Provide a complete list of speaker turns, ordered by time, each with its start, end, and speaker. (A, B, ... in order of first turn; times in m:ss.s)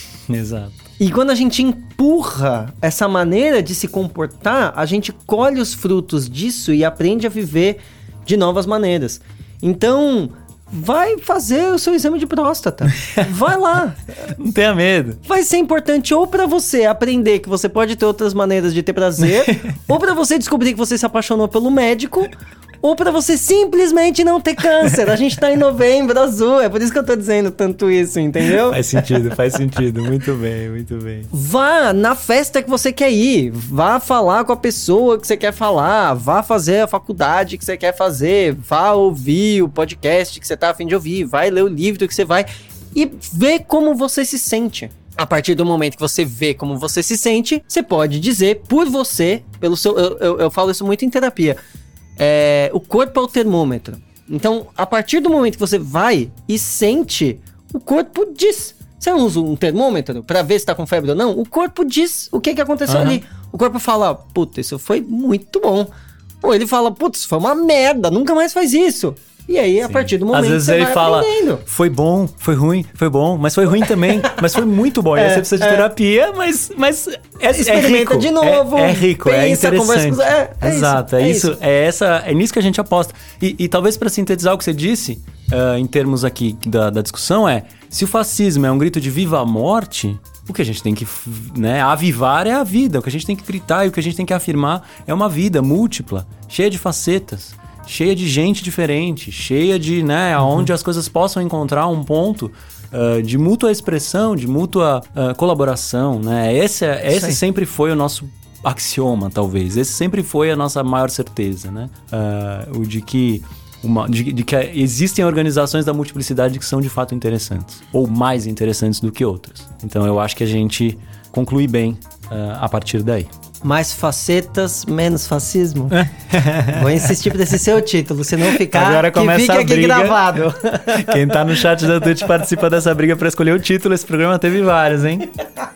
0:00.3-0:00.8 A
0:01.0-0:14.3 B
0:14.3-0:15.2 A
0:15.2-0:22.3 B
0:19.2-0:19.7 A
0:22.8-0:28.8 B
0:28.5-0:31.3 A
0:31.3-0:51.6 B
0:52.2-1:05.9 B
1:02.9-1:03.2 A
1:06.4-1:11.6 B
1:09.8-2:03.3 A
1:15.2-1:15.9 B
1:17.5-1:21.5 B
1:40.4-1:40.7 B
2:03.6-2:06.1 B
2:05.9-2:07.2 A
2:06.7-2:11.6 B
2:08.4-2:10.4 A
2:10.9-2:15.3 A